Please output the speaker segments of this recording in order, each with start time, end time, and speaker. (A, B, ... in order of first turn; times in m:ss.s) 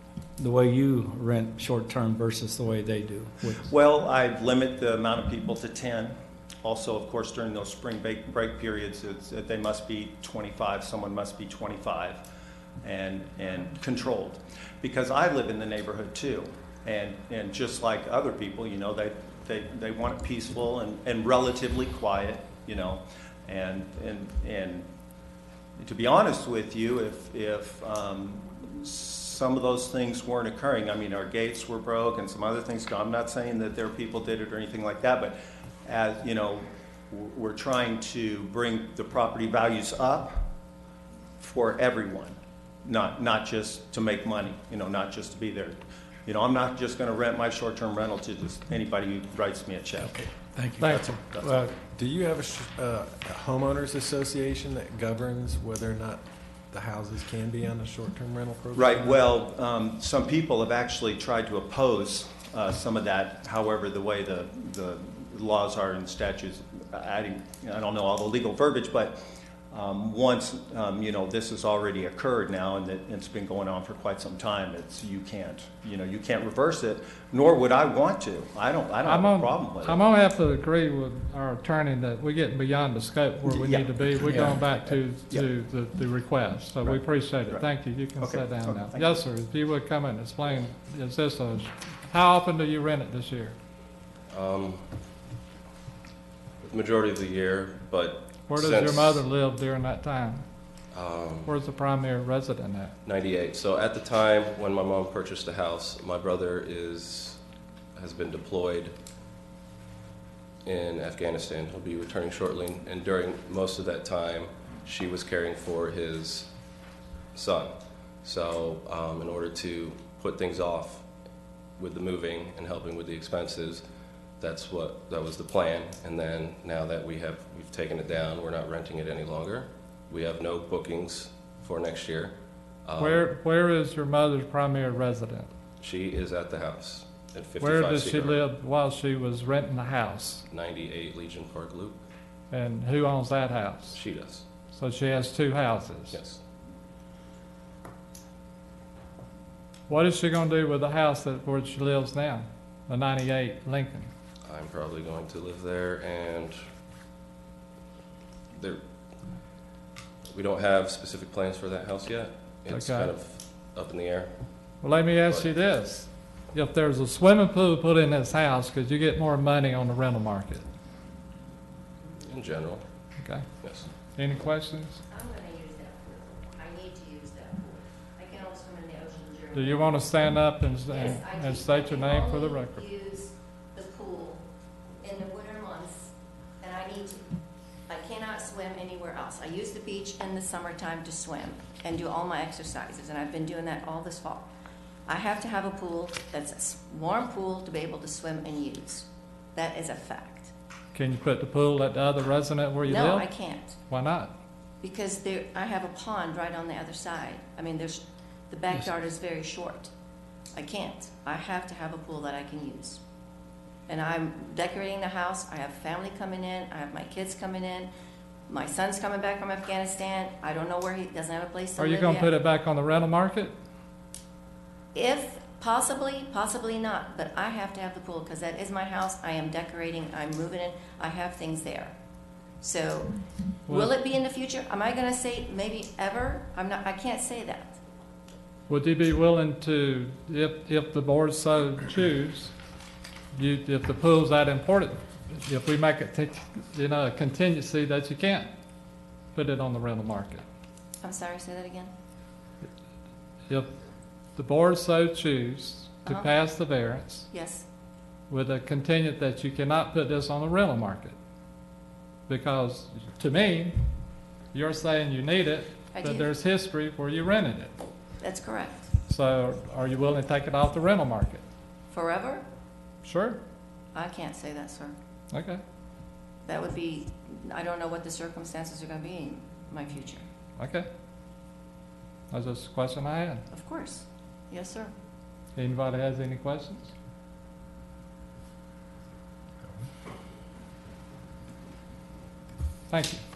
0:00.4-0:03.6 A
0:03.5-0:12.2 B
0:12.8-0:24.9 B
0:25.8-0:40.4 B
0:41.4-0:51.6 B
0:50.6-0:51.1 A
0:51.4-0:59.3 C
0:58.8-1:20.0 B
1:19.0-1:33.6 D
1:23.5-1:24.7 B
1:26.8-1:27.7 B
1:28.2-1:29.2 B
1:34.3-1:34.9 E
1:36.7-1:39.2 E
1:38.5-1:40.4 D
1:40.9-1:41.5 E
1:41.5-1:43.0 D
1:43.0-1:47.4 E
1:48.0-1:49.0 E
1:50.6-1:56.5 E
1:57.3-1:57.7 E
1:58.2-2:01.1 E
2:01.8-2:03.8 E
2:04.4-2:12.3 E
2:12.8-2:13.2 E
2:13.0-2:15.5 D
2:15.8-2:18.4 E
2:17.6-2:20.4 D
2:20.5-2:22.0 E
2:22.5-2:24.0 D
2:23.9-2:24.4 E
2:24.7-2:26.2 D
2:26.1-2:26.4 E
2:29.9-2:34.1 D
2:34.5-2:36.6 E
2:38.5-2:38.8 E
2:40.3-2:44.3 E
2:42.7-2:43.1 D
2:44.8-2:50.6 D
2:52.2-2:52.8 E
2:53.2-2:53.5 D
2:53.6-2:53.9 E
2:54.1-2:55.0 D
2:55.1-3:00.0 F
2:59.5-3:02.8 D
3:00.9-3:04.4 F
3:05.0-3:07.3 F
3:07.9-3:14.5 F
3:15.1-3:20.5 F
3:20.9-3:23.3 D
3:22.8-3:23.8 F
3:23.9-3:24.3 D
3:24.8-3:29.9 F
3:30.5-3:33.0 F
3:33.9-3:37.9 F
3:38.5-3:42.3 F
3:41.8-3:43.5 D
3:44.9-3:51.9 F
3:52.6-3:53.1 F
3:53.7-3:53.9 D
3:53.7-3:57.8 F
3:58.7-4:02.5 D
4:03.4-4:08.5 D
4:09.3-4:10.4 D
4:11.0-4:11.9 F
4:14.4-4:17.3 D
4:16.0-4:16.3 F
4:17.3-4:17.7 F
4:18.3-4:21.2 D
4:22.3-4:23.8 D
4:24.5-4:27.8 D
4:25.9-4:26.3 F
4:28.2-4:28.9 F
4:29.1-4:31.4 D
4:31.9-4:32.4 F
4:33.0-4:33.4 D
4:33.9-4:35.0 F
4:35.3-4:35.6 D
4:36.5-4:40.3 F
4:40.6-4:40.9 D
4:42.3-4:43.4 D
4:43.5-4:44.9 F
4:45.6-4:46.9 D
4:52.9-4:53.2 D